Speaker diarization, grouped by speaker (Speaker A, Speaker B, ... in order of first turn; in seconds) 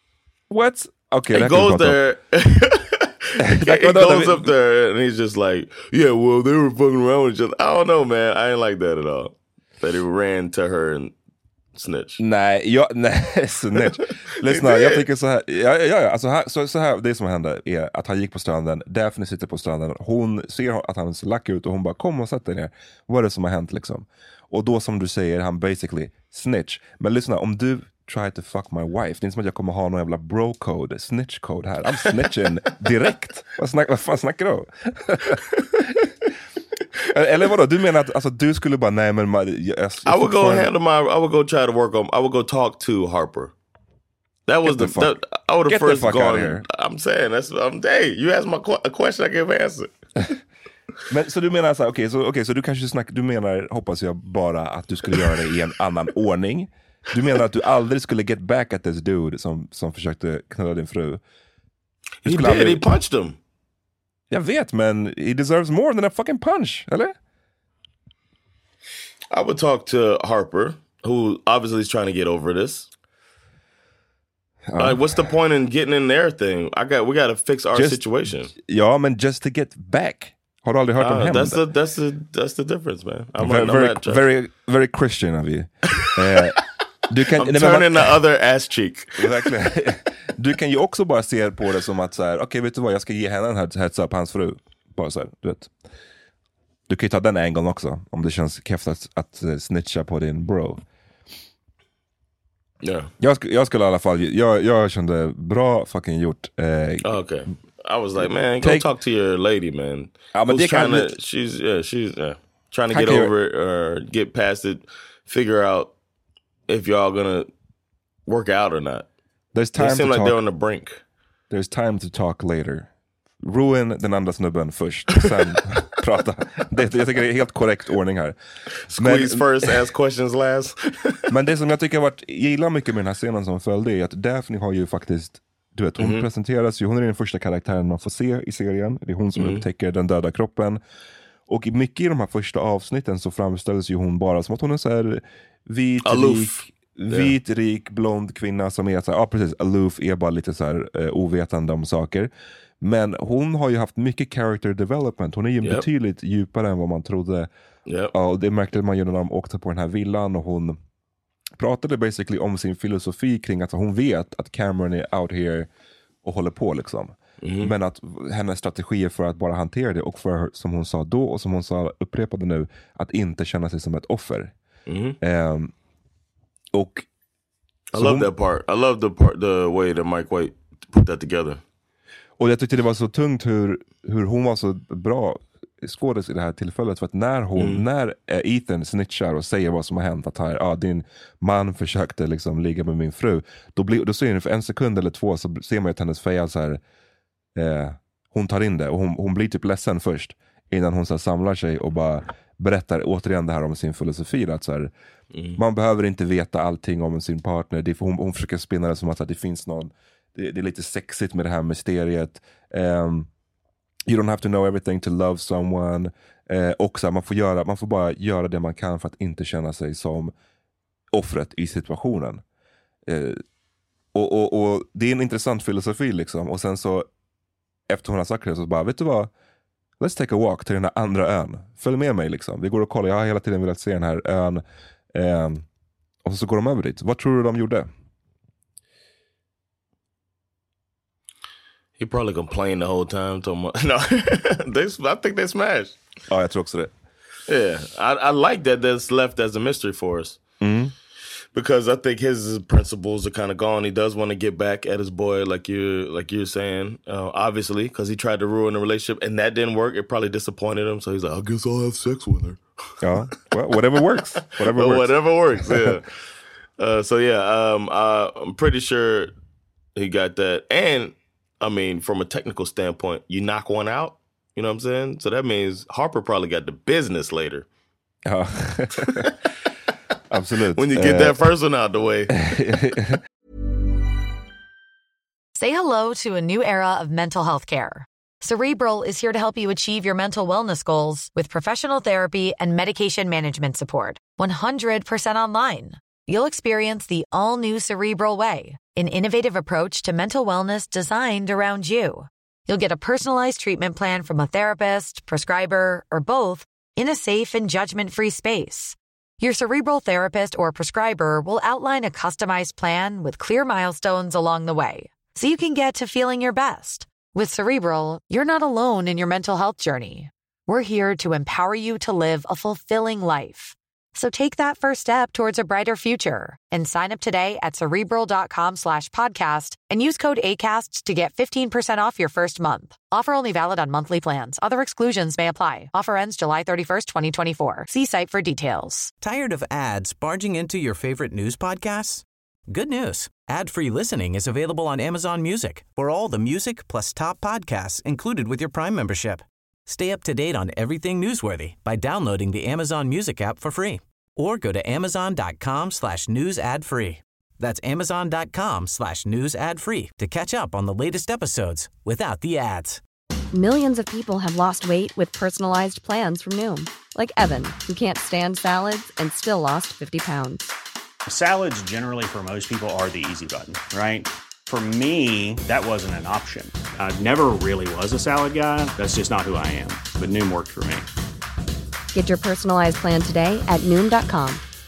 Speaker A: 0.5-2.0, 3.4-4.5, 12.2-36.1, 37.1-40.7, 44.6-45.1, 45.7-46.6, 51.1-61.2, 62.2-62.9, 64.3-67.1, 74.7-75.3, 77.7-81.6, 83.4-88.1, 89.2-95.7, 96.9-100.8, 103.2-107.0, 108.6-108.9, 110.3-111.1, 112.9-113.3, 119.5-120.4, 121.5-122.9, 123.4-128.3, 129.0-129.8, 131.3-140.8, 141.5-152.3, 152.8-157.5, 158.1-160.8, 161.6-165.7, 166.2-174.5, 175.2-175.7, 176.7-177.1, 177.9-178.3, 182.4-196.8, 197.5-204.9, 205.6-213.3, 214.1-220.3, 221.1-222.4, 223.1-223.4, 224.1-227.1, 227.9-229.3, 230.0-235.7, 236.2-237.9, 246.3-246.9, 250.6-250.9, 263.0-265.1, 265.6-266.0, 278.2-279.3, 280.3-281.4, 282.5-283.2
Speaker B: 1.3-11.1, 11.7-12.2, 13.8-15.0, 40.0-43.5, 44.5-49.9, 62.2-63.4, 69.3-72.9, 74.8-78.5, 81.0-84.2, 86.0-86.5, 87.3-89.5, 102.8-103.1, 107.0-115.9, 116.7-117.5, 118.3-119.1, 119.8-121.0, 128.9-131.3, 136.0-136.2, 139.3-139.6, 146.0-147.3, 157.9-158.1, 167.4-167.7, 174.9-175.2, 177.9-181.6, 187.6-187.8, 205.3-205.6, 242.0-245.9, 247.5-250.4, 251.5-262.6, 264.2-266.1, 266.8-269.3, 269.9-277.6, 280.8-282.6
Speaker C: 285.6-339.1
Speaker D: 339.2-363.0
Speaker E: 363.5-370.7, 382.1-384.6
Speaker F: 371.3-381.1